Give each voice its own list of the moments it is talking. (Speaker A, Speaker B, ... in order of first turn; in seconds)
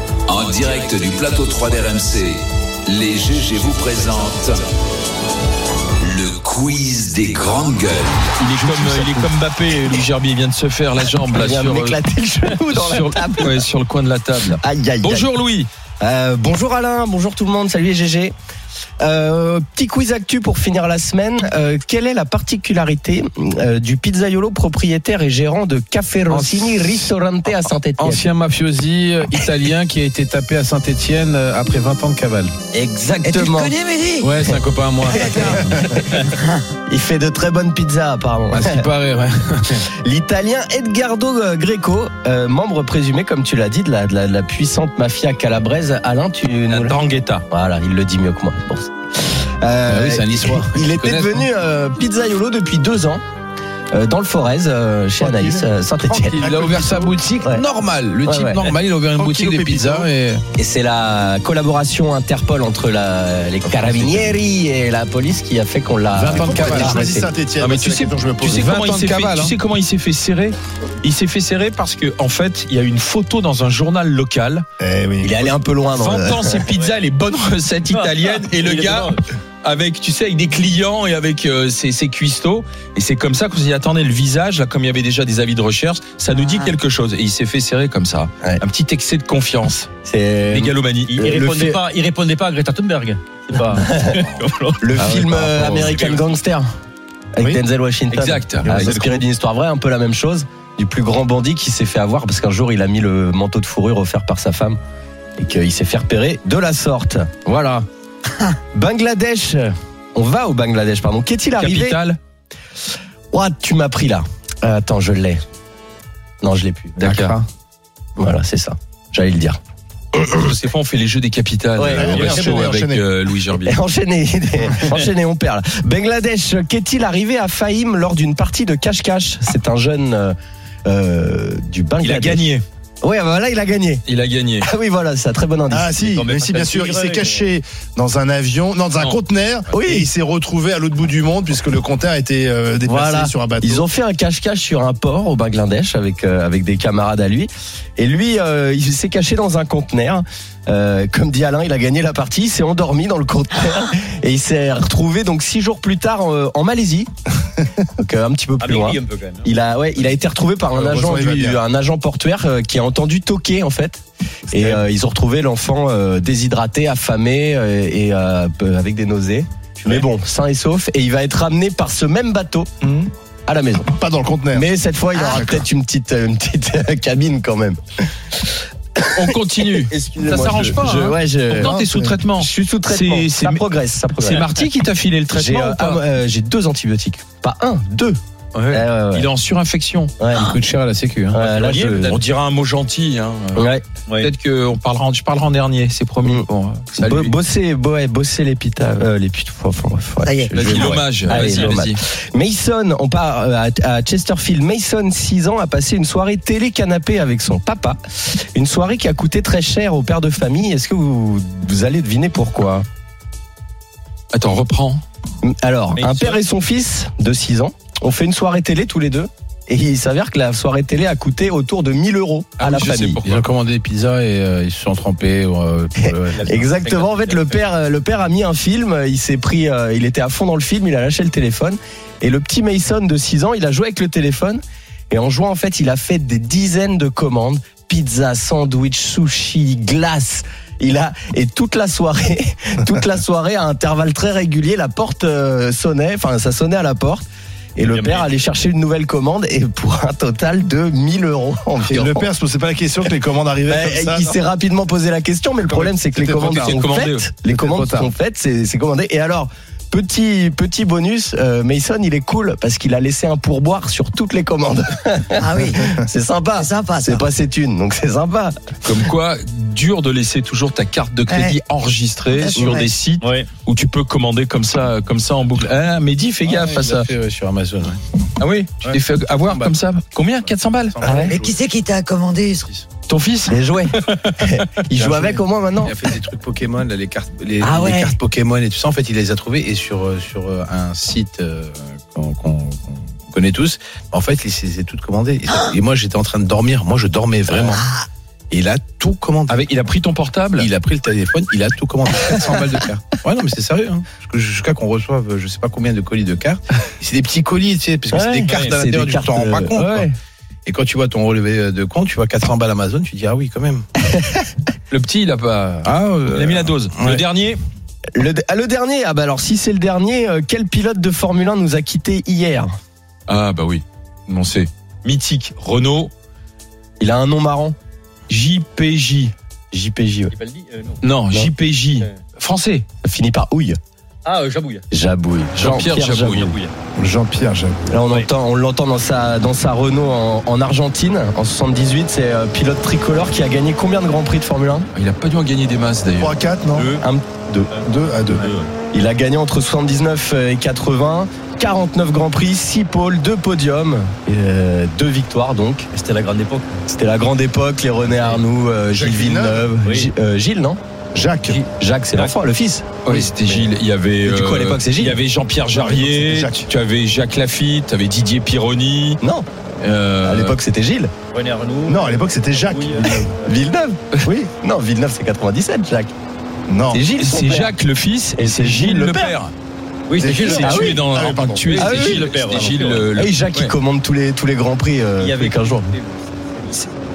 Speaker A: 0.3-4.6, 6.0-8.4
Speaker B: 8.4-12.0, 12.6-15.7, 46.7-47.5, 67.6-74.7, 75.9-79.1, 79.6-89.9, 90.5-91.2, 95.0-96.2, 98.1-98.9, 111.6-112.2, 117.0-117.4, 120.1-123.8, 132.0-132.6, 134.1-134.7, 179.1-186.0, 188.5-190.1, 191.4-197.3, 200.5-202.0, 214.3-215.0, 222.6-223.5, 256.4-257.3, 268.8-277.1, 278.4-281.0, 283.1-284.6, 299.5-300.7, 314.9-317.6, 323.3-326.1, 328.3-329.3, 331.0-332.9, 335.6-336.5, 344.9-346.4, 363.0-369.2, 369.8-370.6, 377.2-379.5, 380.4-383.7
Speaker C: 8.6-9.2, 26.3-26.6, 28.0-32.5, 34.2-36.0, 38.5-39.9, 49.9-51.5, 56.0-60.4, 63.7-64.2, 66.2-67.1, 68.6-69.2, 190.3-191.5, 200.6-200.9, 223.2-226.4, 276.4-278.0, 279.4-279.8, 280.4-281.7, 284.9-298.0, 298.5-299.6, 300.6-310.1, 310.7-313.9, 315.9-317.1
Speaker D: 11.3-13.6, 14.6-15.3, 16.0-18.3, 19.0-28.3, 32.7-33.8, 35.1-36.0, 36.9-38.9, 39.8-47.0, 47.5-53.2, 53.9-56.5, 57.4-57.7, 58.2-58.7, 60.6-67.3, 75.2-76.7, 90.0-91.8, 94.8-96.7, 97.3-104.8, 105.4-107.8, 108.7-112.0, 113.3-115.4, 116.4-117.5, 118.2-119.6, 121.8-122.9, 123.5-130.3, 130.9-132.4, 133.0-134.1, 134.6-136.1, 139.7-140.1, 142.9-157.1, 157.9-172.7, 173.5-173.9, 174.5-184.5, 185.3-188.2, 188.7-189.3, 190.2-190.5, 191.3-192.2, 193.6-193.8, 196.2-212.8, 215.4-223.2, 226.0-247.2, 247.8-252.3, 253.7-268.6, 272.6-272.8, 281.0-281.4, 283.5-286.0, 308.1-310.1, 314.1-314.5, 318.1-322.7, 327.0-327.8, 329.7-330.3, 333.0-333.8, 334.9-336.6, 337.9-344.9, 347.0-347.7, 348.9-355.9, 356.9-360.8, 361.8-363.6, 364.2-365.2, 369.2-369.5, 370.2-371.1, 373.4-376.1, 376.9-377.7, 378.4-379.4, 380.5-381.1, 381.8-382.3, 383.1-385.9
Speaker E: 33.2-34.5, 35.1-36.6, 200.2-201.0, 265.4-265.9, 266.6-267.2, 271.3-271.6, 272.3-272.9, 281.1-282.7, 287.6-288.2
Speaker F: 55.2-55.7, 56.4-57.2, 59.2-60.1, 66.2-69.5, 74.8-75.6, 98.6-99.2, 121.9-123.0, 135.7-143.9, 160.8-161.6, 164.5-164.8, 172.8-173.1, 173.9-174.7, 175.3-175.7, 181.6-182.2, 251.8-254.4, 255.7-256.9, 257.5-258.1, 337.0-337.8, 346.2-346.9, 347.8-348.5, 358.9-359.7, 361.1-361.6, 365.7-366.7, 371.9-373.3, 376.7-377.0, 380.2-381.8
Speaker G: 77.9-79.3, 91.1-94.9, 136.0-137.5, 158.6-159.6, 201.3-201.8, 216.0-216.4, 226.3-227.7, 247.8-248.5, 273.2-273.5, 308.4-308.9, 330.3-331.0, 334.2-334.9, 336.4-336.7, 346.7-347.1, 347.7-348.7, 355.9-356.8, 358.1-358.4, 359.8-360.1, 361.4-362.4, 371.3-373.6, 380.1-380.6, 381.6-383.1, 385.2-386.9